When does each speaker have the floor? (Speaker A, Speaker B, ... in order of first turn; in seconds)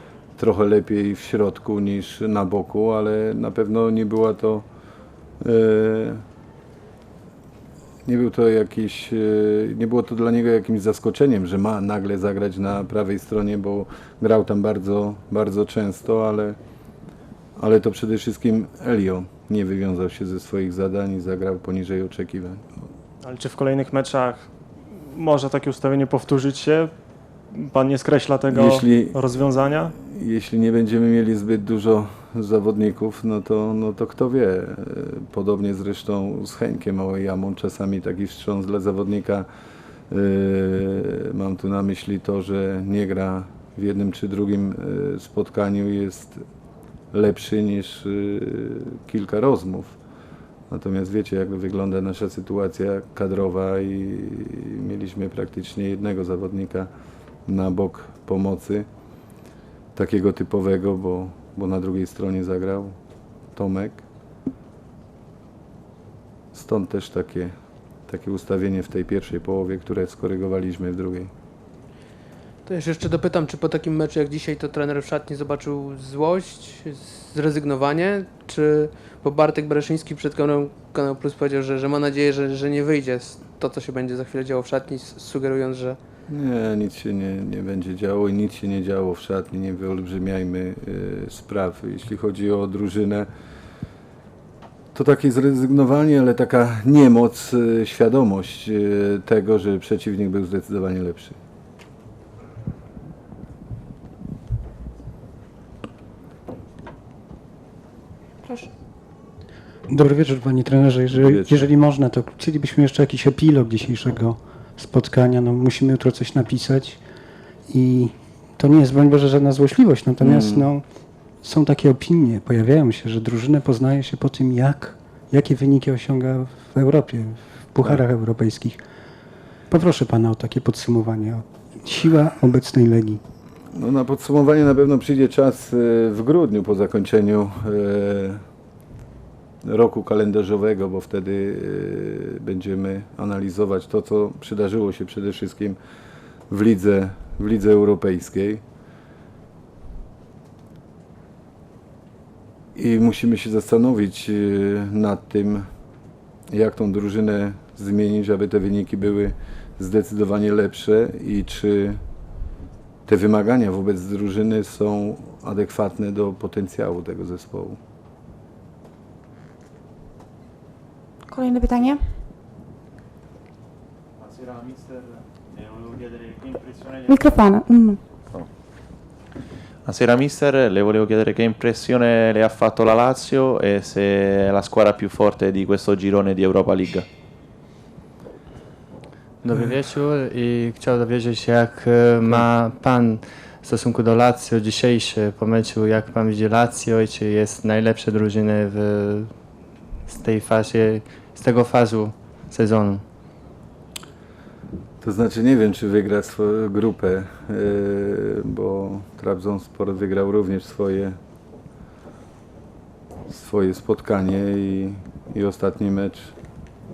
Speaker A: 0.4-4.7, 5.4-6.2, 8.0-16.6, 17.6-22.6, 28.5-29.3, 29.9-39.5, 40.1-46.4, 47.1-50.0, 50.7-56.9, 57.5-58.9, 59.9-62.9, 63.5-64.0, 66.5-67.5, 68.1-71.3, 86.3-93.3, 94.9-101.4, 111.1-111.7, 120.2-120.7, 133.7-138.4, 139.6-145.8, 146.5-148.6, 152.7-155.7, 156.5-162.0, 163.1-167.8, 205.0-211.2, 213.3-216.3
Speaker B: 23.2-24.5, 25.1-26.9, 27.5-29.9
Speaker C: 72.7-86.0
Speaker D: 108.4-108.7, 171.3-172.0, 177.0-178.0
Speaker E: 109.9-117.0, 117.7-120.8, 121.4-128.8, 129.7-133.2
Speaker F: 179.8-187.1
Speaker G: 189.4-203.0